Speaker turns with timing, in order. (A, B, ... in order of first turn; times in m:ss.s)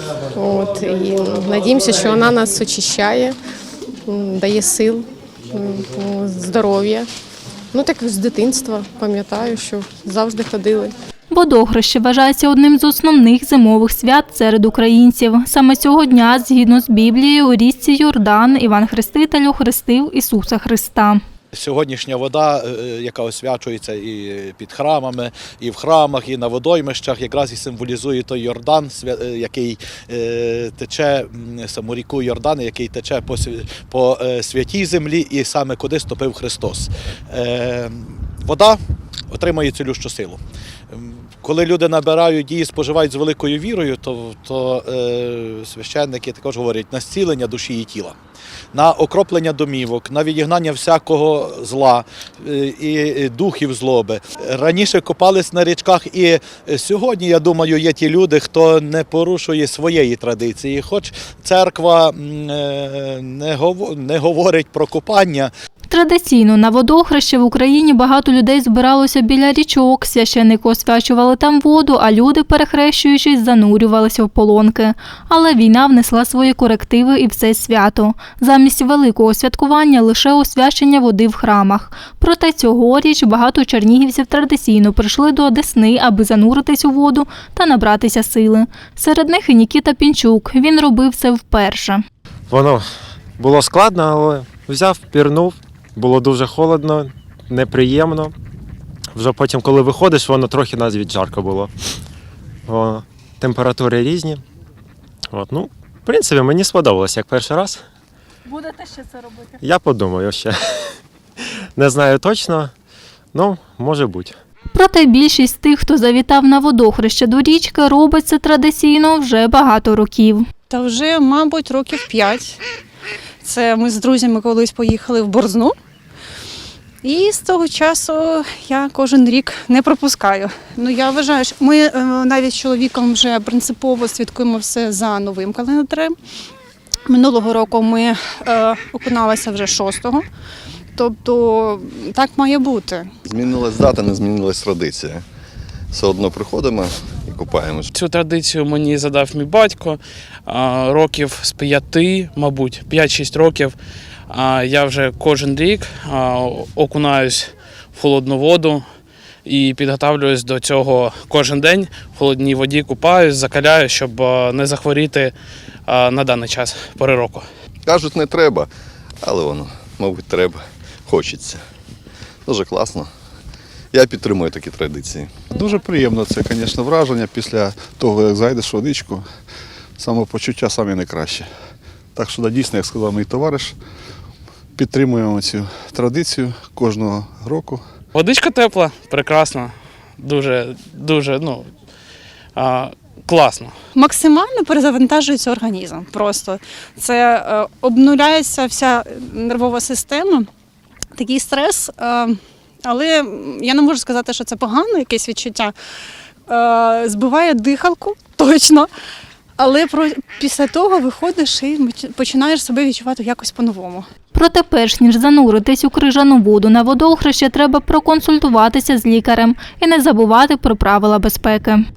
0:00.3-0:03.4 A
0:04.1-0:07.1 A
0:07.7-0:10.9 A
0:11.3-0:21.2 B
0:21.5-0:38.8 C
0:39.3-0:40.4 C
0:40.9-0:48.1 C
0:48.7-1:05.5 C
1:05.9-1:32.0 B
1:32.5-1:38.3 D
1:39.1-1:41.7 D
1:42.6-1:44.4 D
1:45.3-1:47.8 D
1:48.8-1:49.2 E
1:49.6-1:51.0 D
1:51.7-1:52.7 D
1:53.3-1:54.4 D
1:54.7-2:00.4 B
2:00.7-2:02.6 E
2:03.4-2:05.7 E
2:07.0-2:16.1 E
2:17.1-2:20.2 E
2:21.0-2:23.1 E
2:23.3-2:25.2 F
2:25.9-2:27.8 F
2:27.9-2:33.7 G
2:34.3-2:38.9 G
2:39.4-2:45.3 G
2:45.9-2:47.4 G
2:47.9-2:48.7 F
2:49.2-2:51.6 F
2:52.5-2:53.1 F
2:53.9-2:55.2 F
2:55.5-2:59.2 H
3:00.0-3:01.5 H
3:02.1-3:03.8 H
3:04.8-3:07.8 H
3:08.1-3:11.7 G
3:12.5-3:13.7 G
3:13.9-3:20.5 E
3:21.2-3:25.7 E
3:26.5-3:28.9 E
3:29.6-3:34.1 E
3:34.3-3:41.8 B